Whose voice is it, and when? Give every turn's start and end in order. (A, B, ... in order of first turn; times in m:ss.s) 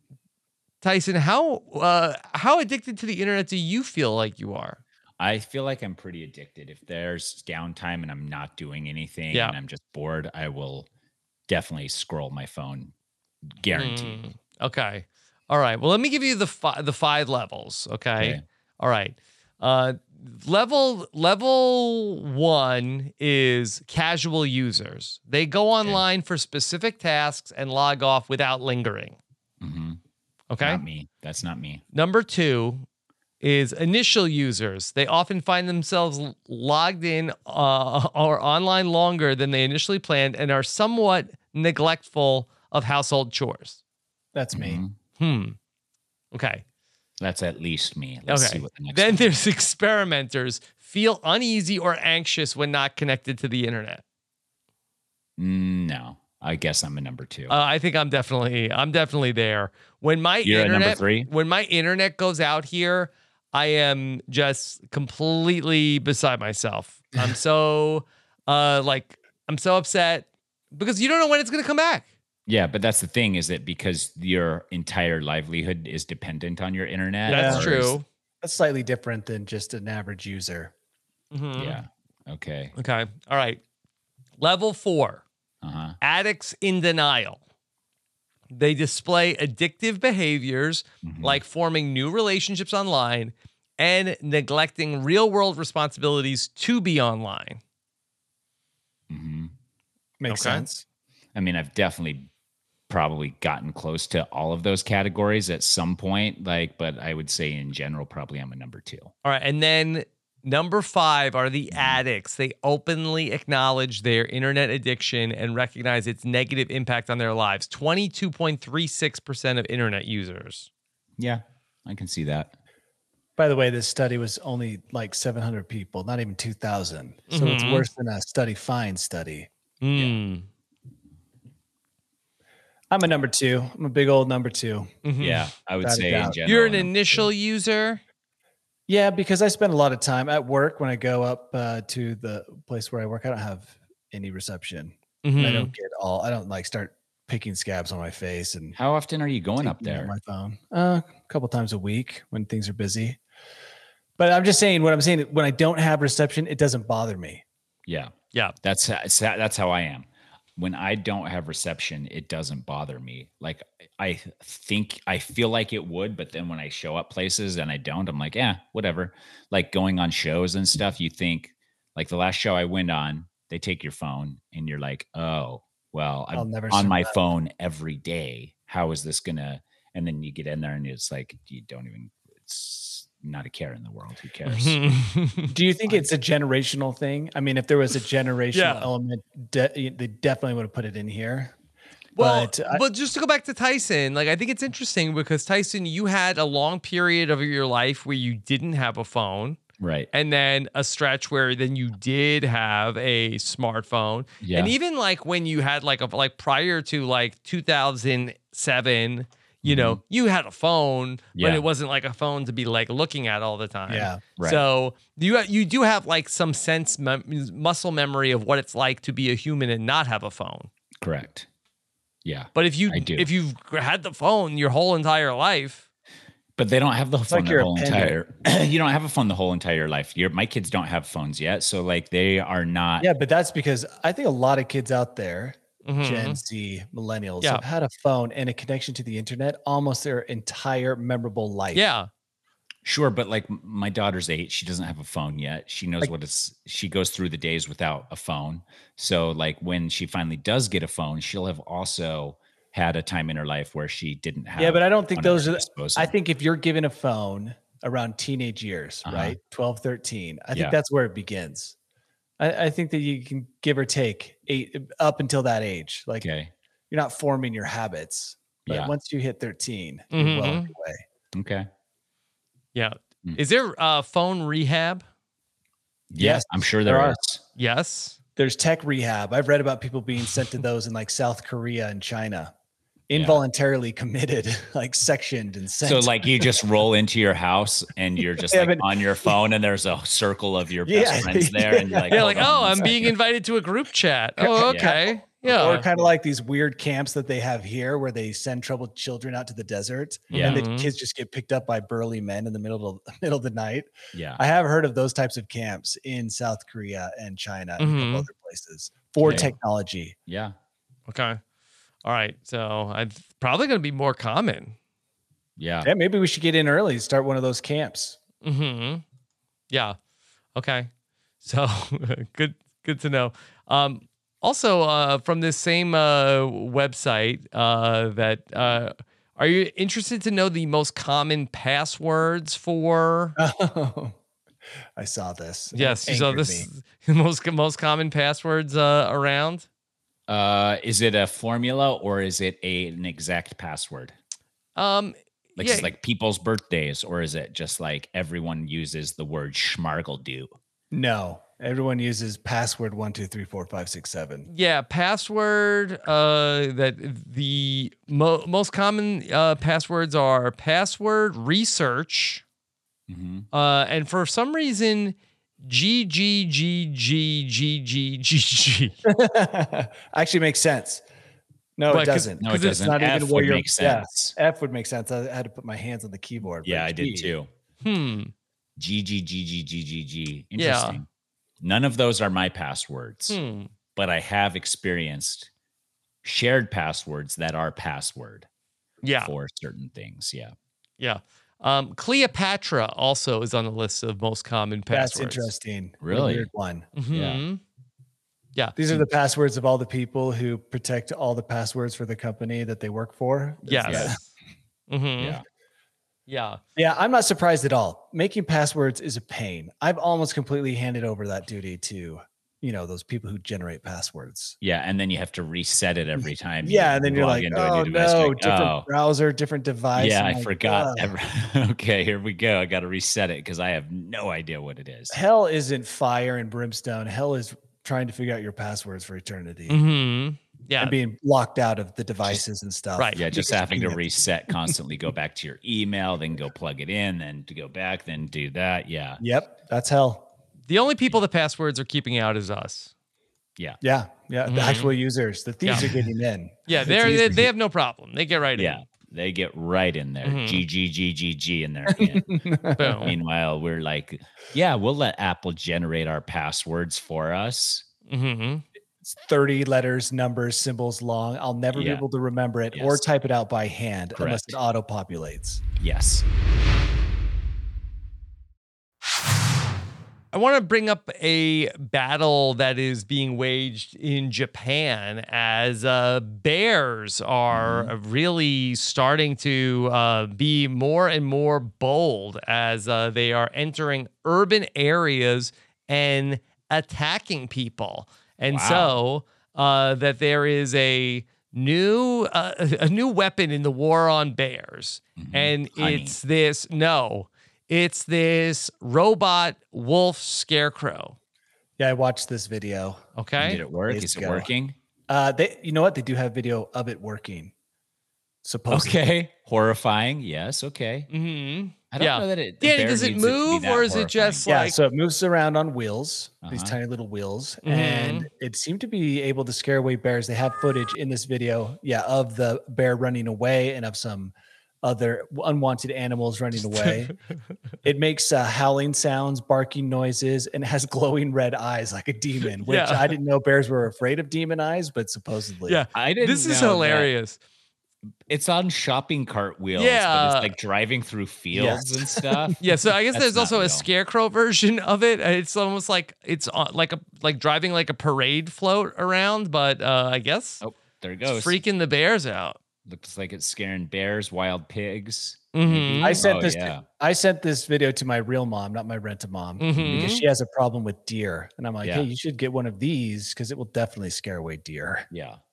0:00.8-0:04.8 A
0:05.2-0:10.9 B
0:11.5-0:12.9 B
0:13.6-0:14.2 B
0:13.7-0:29.2 A
0:29.6-0:30.0 B
0:30.5-0:30.8 A
0:30.6-0:31.8 B
0:31.9-0:32.8 A
0:33.4-0:43.8 A
0:44.3-0:44.8 C
0:44.5-0:44.9 B
0:45.2-0:45.6 A
0:46.3-0:46.6 A
0:47.2-0:49.3 B
0:48.3-0:54.0 A
0:55.4-0:57.5 B
0:57.5-1:12.1 A
1:00.4-1:01.3 B
1:12.5-1:18.0 B
1:17.3-1:18.0 A
1:17.3-1:17.7 C
1:18.4-1:20.7 C
1:21.3-1:21.8 A
1:21.6-1:22.7 B
1:22.8-1:23.6 A
1:24.4-1:25.2 A
1:25.6-1:26.0 B
1:26.0-1:27.4 A
1:28.5-1:37.6 A
1:31.0-1:31.4 B
1:39.1-1:39.5 B
1:40.2-1:40.8 C
1:40.3-1:40.6 A
1:41.3-1:42.3 B
1:42.9-1:49.1 B
1:49.2-2:00.7 A
1:51.7-1:52.0 B
2:01.2-2:02.5 B
2:03.4-2:09.5 C
2:07.3-2:07.9 A
2:09.8-2:10.4 A
2:12.9-2:15.0 C
2:15.0-2:15.5 A
2:15.2-2:17.3 B
2:15.8-2:16.4 C
2:16.4-2:18.0 A
2:18.9-2:28.8 C
2:25.2-2:25.7 A
2:28.7-2:30.1 B
2:29.6-2:33.2 C
2:34.2-2:37.4 C
2:37.9-2:40.0 B
2:40.6-3:04.9 B
2:56.3-2:57.1 C
3:04.5-3:05.5 A
3:05.5-3:11.5 C
3:08.5-3:08.9 A
3:12.2-3:19.6 A
3:12.2-3:12.8 C
3:19.8-3:20.1 B
3:20.1-3:40.7 A
3:24.4-3:24.7 B
3:29.6-3:30.0 B
3:31.4-3:31.6 B
3:33.9-3:34.2 C
3:34.4-3:34.6 B
3:41.0-3:41.4 B
3:42.2-3:43.3 B
3:42.5-3:45.8 A
3:46.6-3:53.1 B
3:47.3-3:48.2 C
3:53.0-4:01.9 C
3:55.8-3:56.4 A
4:01.7-4:02.1 A
4:02.8-4:16.1 B
4:14.6-4:21.7 C
4:19.0-4:19.4 B
4:22.4-4:26.3 C
4:26.2-4:26.5 B
4:26.9-4:31.0 C
4:28.6-4:28.9 B
4:30.1-4:30.7 A
4:31.3-4:31.7 B
4:32.7-4:35.0 A
4:36.1-4:37.4 B
4:36.2-4:37.2 C
4:37.6-4:38.2 A
4:38.4-4:42.5 C
4:43.1-4:46.6 C
4:43.1-4:43.4 B
4:45.8-4:53.1 B
4:48.4-4:49.3 C
4:50.8-4:53.0 C
4:52.1-4:55.8 A
4:54.4-5:10.1 C
4:54.7-4:54.9 B
5:00.3-5:00.6 B
5:00.4-5:00.9 A
5:04.1-5:04.4 B
5:07.8-5:08.3 A
5:09.2-5:09.5 B
5:10.3-5:10.5 B
5:11.1-5:11.4 A
5:12.0-5:14.7 A
5:15.6-5:15.9 B
5:15.8-5:18.2 C
5:18.4-5:19.0 A
5:19.7-5:20.0 A
5:20.6-5:20.9 A
5:21.4-5:33.4 A
5:33.4-5:34.2 C
5:35.0-5:36.7 C
5:35.7-5:39.6 A
5:40.3-5:44.1 B
5:44.8-5:45.9 A
5:45.6-5:50.5 B
5:50.9-5:54.5 C
5:54.5-6:02.4 A
6:03.1-6:03.5 B
6:03.5-6:09.0 A
6:09.0-6:11.0 C
6:11.8-6:17.3 C
6:11.9-6:12.8 A
6:12.4-6:14.4 B
6:16.6-6:17.5 B
6:17.8-6:18.3 A
6:18.8-6:21.0 B
6:20.6-6:21.0 A
6:21.6-6:23.4 B
6:23.3-6:23.7 A
6:23.9-6:25.5 B
6:26.2-6:28.5 B
6:29.0-6:29.3 A
6:29.2-6:30.5 B
6:31.0-6:35.5 A
6:34.9-6:36.9 C
6:36.0-6:36.5 B
6:37.0-6:37.6 A
6:37.1-6:37.4 B
6:38.8-6:44.2 C
6:43.6-6:44.2 A
6:43.9-6:44.1 B
6:44.9-6:45.4 A
6:45.2-6:45.4 B
6:46.3-6:46.6 A
6:46.8-6:54.6 C
6:54.6-6:58.9 B
6:56.6-7:01.1 C
6:59.9-7:05.2 B
7:05.1-7:09.8 C
7:09.7-7:10.9 A
7:10.8-7:14.0 C
7:13.0-7:13.2 A
7:13.2-7:19.2 B
7:19.2-7:20.3 C
7:20.7-7:22.9 A
7:23.8-7:27.5 C
7:24.4-7:24.9 A
7:26.7-7:28.8 A
7:28.6-7:32.4 B
7:30.2-7:30.6 A
7:31.9-7:33.1 C
7:32.8-7:33.1 A
7:33.0-7:37.8 B
7:38.1-7:38.6 A
7:39.0-7:45.6 C
7:41.7-7:42.0 B
7:42.7-7:43.0 B
7:44.2-7:44.6 B
7:45.8-7:46.2 B
7:50.3-8:21.2 A
7:57.5-7:57.9 B
8:08.5-8:09.0 B
8:15.2-8:16.2 B
8:21.8-8:23.0 C
8:23.2-8:23.6 A
8:23.4-8:24.7 B
8:23.9-8:24.5 C
8:25.1-8:27.5 C
8:28.4-8:29.0 C
8:28.7-8:31.1 B
8:31.1-8:34.8 A
8:31.9-8:34.4 B
8:34.4-8:47.1 C
8:36.4-8:36.8 B
8:37.6-8:38.3 A
8:47.8-8:55.8 C
8:52.6-8:53.1 A
8:55.7-8:57.4 A
8:55.9-8:57.1 B
8:58.3-9:03.9 B
8:59.8-9:00.5 A
9:01.5-9:02.5 C
9:02.6-9:10.6 A
9:10.6-9:11.6 B
9:11.3-9:12.6 A
9:12.8-9:16.8 B
9:15.5-9:16.2 A
9:16.0-9:25.1 C
9:19.6-9:20.2 A
9:21.8-9:22.1 B
9:25.1-9:25.4 B